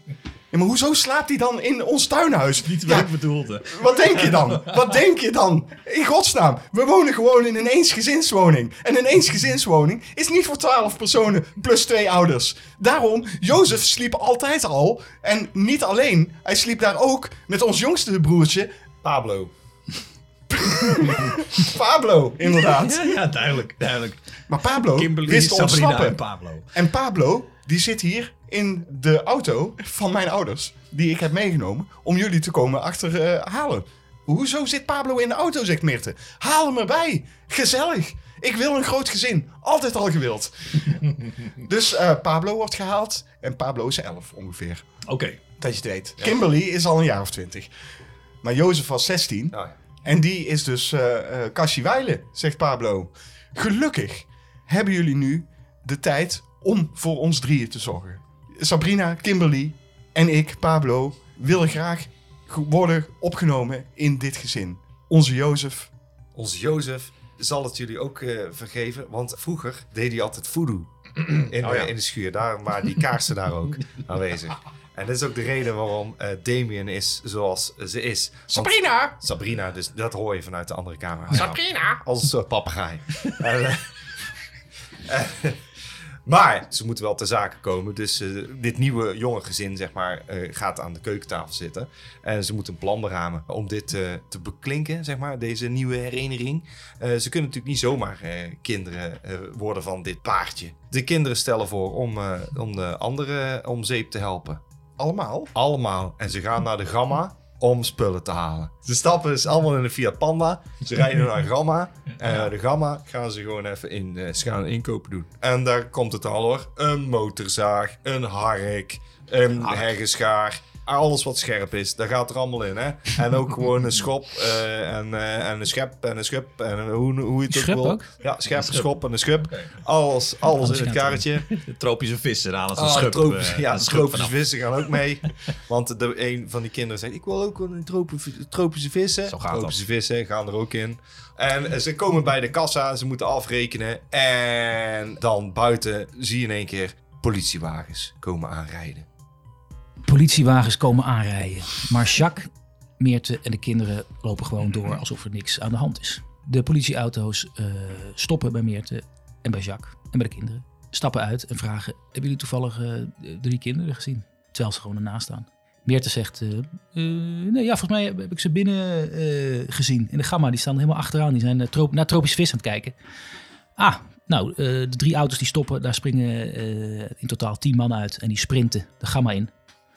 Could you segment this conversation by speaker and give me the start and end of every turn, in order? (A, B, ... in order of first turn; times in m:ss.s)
0:00.5-0:18.7 A
0:02.6-0:04.5 B
0:19.0-0:19.5 C
0:20.5-0:23.2 A
0:21.7-0:22.2 C
0:22.6-0:24.2 B
0:24.5-0:26.2 A
0:24.8-0:26.6 B
0:26.7-0:44.8 A
0:45.0-0:45.6 B
0:45.6-0:47.7 A
0:48.4-1:05.9 A
1:06.3-1:23.9 C
1:11.6-1:11.9 B
1:18.5-1:19.1 A
1:21.3-1:22.0 A
1:25.0-1:25.6 C
1:26.3-1:44.6 C
1:45.0-1:45.5 A
1:45.5-2:11.5 C
2:07.5-2:08.1 D
2:08.6-2:08.9 B
2:10.6-2:11.2 D
2:11.5-2:15.0 B
2:12.7-2:29.0 C
2:19.3-2:19.8 B
2:30.0-2:53.0 D
2:53.8-2:59.5 D